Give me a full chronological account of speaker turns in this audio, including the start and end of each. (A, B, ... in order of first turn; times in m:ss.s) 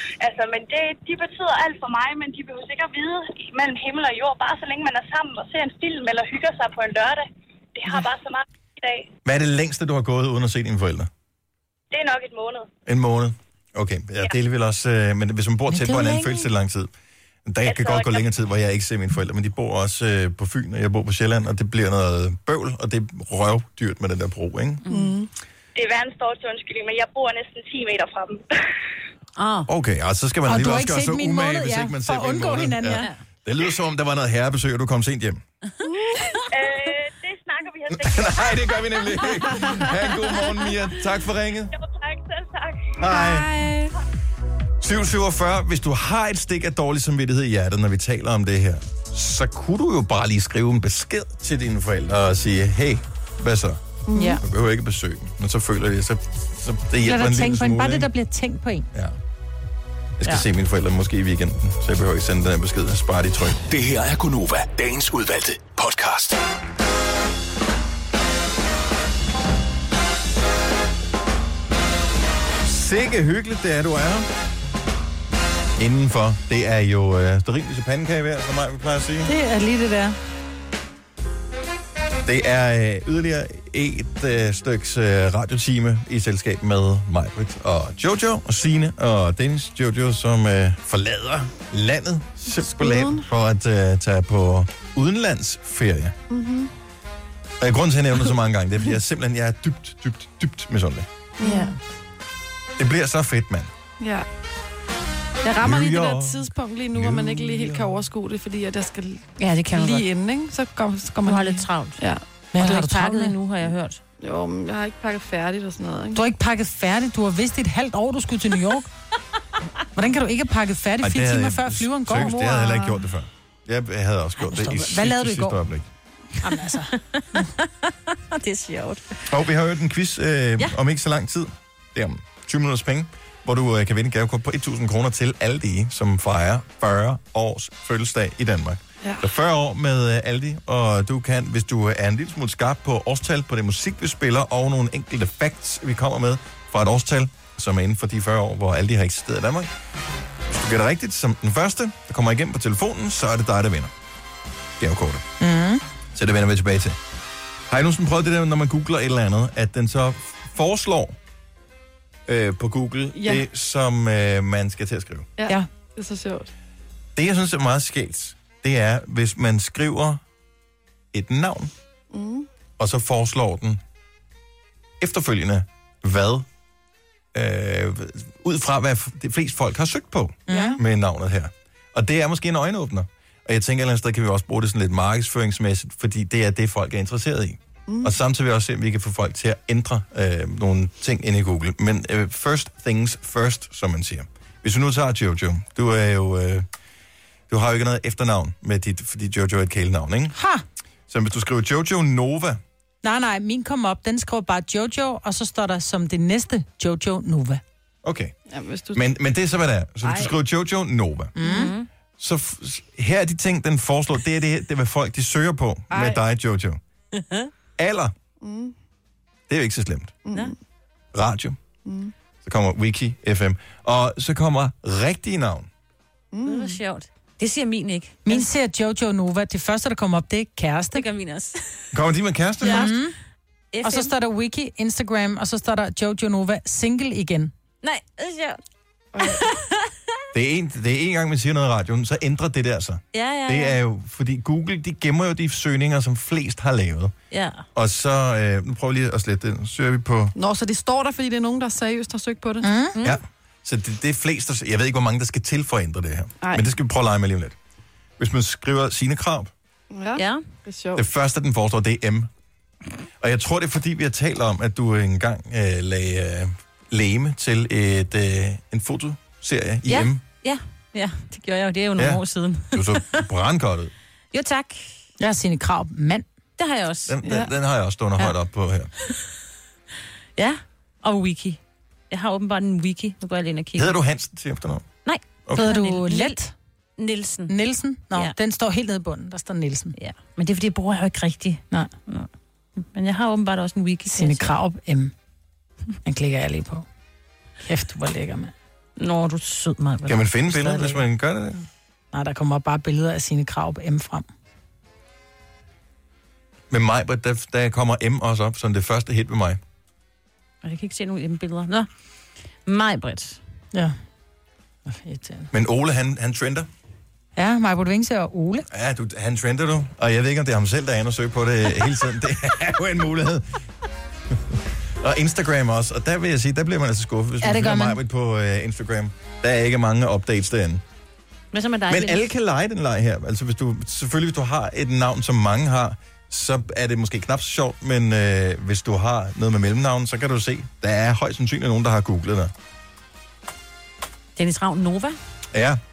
0:00.2-0:09.1 A
0:09.2-0:11.1 B
0:11.9-0:12.7 A
0:12.9-0:16.9 B
0:15.7-0:16.5 C
0:17.5-0:24.8 B
0:17.7-0:18.2 A
0:24.8-0:25.2 D
0:24.9-0:25.3 E
0:25.8-0:28.4 A
0:29.4-0:29.7 D
0:29.7-0:35.4 B
0:30.5-0:33.1 C
0:32.9-0:33.2 D
0:35.8-0:36.4 E
0:36.5-0:39.4 A
0:37.9-0:41.7 B
0:41.7-0:43.0 A
0:43.0-0:43.7 B
0:43.0-0:43.9 E
0:44.8-0:53.8 B
0:54.1-0:54.4 E
0:54.4-0:58.1 B
0:57.0-0:58.9 C
1:00.2-1:03.6 B
1:03.7-1:06.4 F
1:12.6-1:14.3 B
1:15.8-1:19.3 B
1:19.3-1:20.2 C
1:22.2-1:36.2 B
1:32.5-1:33.3 E
1:36.3-1:36.7 E
1:37.6-1:41.1 B
1:41.4-1:41.8 E
1:41.4-1:41.8 D
1:42.8-1:43.7 B
1:44.0-1:44.3 E
1:45.4-1:52.2 E
1:45.6-1:48.0 B
1:49.4-1:50.1 D
1:51.2-1:52.0 D
1:52.5-1:53.4 C
1:52.6-1:54.0 D
1:54.2-1:56.2 E
1:56.2-1:58.9 C
2:00.0-2:02.4 C
2:01.0-2:05.9 B
2:02.2-2:03.0 E
2:04.4-2:05.6 C
2:06.4-2:07.5 C
2:06.9-2:09.3 D
2:09.3-2:29.7 B
2:30.5-2:33.9 B
2:34.8-2:35.3 B
2:35.4-2:35.8 C
2:36.1-2:37.0 B
2:37.7-2:41.2 B
2:42.3-2:45.3 B
2:43.2-2:43.4 E
2:45.4-2:46.5 E
2:47.2-2:50.2 B
2:51.1-2:51.7 B
2:52.1-2:52.5 E
2:52.8-2:53.8 B
2:55.0-2:56.5 B
2:57.3-3:16.7 B
3:00.5-3:00.8 C
3:00.5-3:00.8 E
3:17.5-3:20.4 B
3:20.4-3:20.6 C
3:21.1-3:22.6 B
3:23.0-3:27.6 C
3:28.0-3:28.4 B
3:28.5-3:29.1 E
3:28.9-3:31.3 B
3:30.0-3:30.3 E
3:31.4-3:31.7 C
3:31.4-3:31.9 D
3:32.2-3:36.8 B
3:35.9-3:36.2 E
3:37.1-3:37.5 D
3:37.8-3:38.1 B
3:38.4-3:38.8 E
3:39.5-3:40.2 B
3:40.3-3:40.6 E
3:41.1-3:41.6 B
3:41.8-3:42.1 E
3:42.4-3:45.7 B
3:46.3-3:46.8 E
3:46.4-3:48.5 D
3:48.3-3:51.0 C
3:50.9-3:51.9 D
3:51.9-3:52.9 B
3:52.6-3:53.0 D
3:52.6-3:53.2 C
3:53.7-3:54.1 D
3:53.8-3:57.5 C
3:57.8-3:58.6 D
3:59.1-3:59.4 E
3:59.2-3:59.9 D
4:00.3-4:07.1 B
4:03.1-4:03.8 D
4:07.3-4:07.6 D
4:07.8-4:10.3 B
4:10.4-4:12.7 E
4:12.6-4:13.0 C
4:13.0-4:17.6 B
4:16.4-4:16.7 E
4:18.2-4:19.5 B
4:19.9-4:21.0 E
4:20.2-4:20.4 D
4:21.0-4:22.3 B
4:23.2-4:30.2 B
4:29.9-4:33.2 D
4:32.0-4:33.9 B
4:34.3-4:34.9 D
4:35.2-4:36.2 C
4:36.6-4:37.2 D
4:37.1-4:38.9 B
4:37.2-4:37.5 E
4:40.4-4:41.6 D
4:42.1-4:44.0 D
4:43.8-4:44.9 B
4:45.0-4:46.4 D
4:45.6-4:46.5 C
4:47.0-4:47.5 D
4:47.5-4:49.9 C
4:50.0-4:54.5 D
4:54.1-4:55.1 C
4:56.0-4:56.8 C
4:57.6-4:58.5 C
4:59.0-5:01.0 D
5:00.1-5:01.6 B
5:02.1-5:04.3 C
5:06.7-5:09.6 B
5:10.6-5:11.9 D
5:12.7-5:13.4 D
5:14.9-5:15.5 C
5:15.5-5:16.7 B
5:17.4-5:18.7 C
5:18.7-5:23.4 B
5:24.3-5:30.8 B
5:27.4-5:28.0 C
5:31.5-5:32.2 D
5:31.9-5:42.5 B
5:44.4-5:45.2 D
5:45.5-5:45.8 B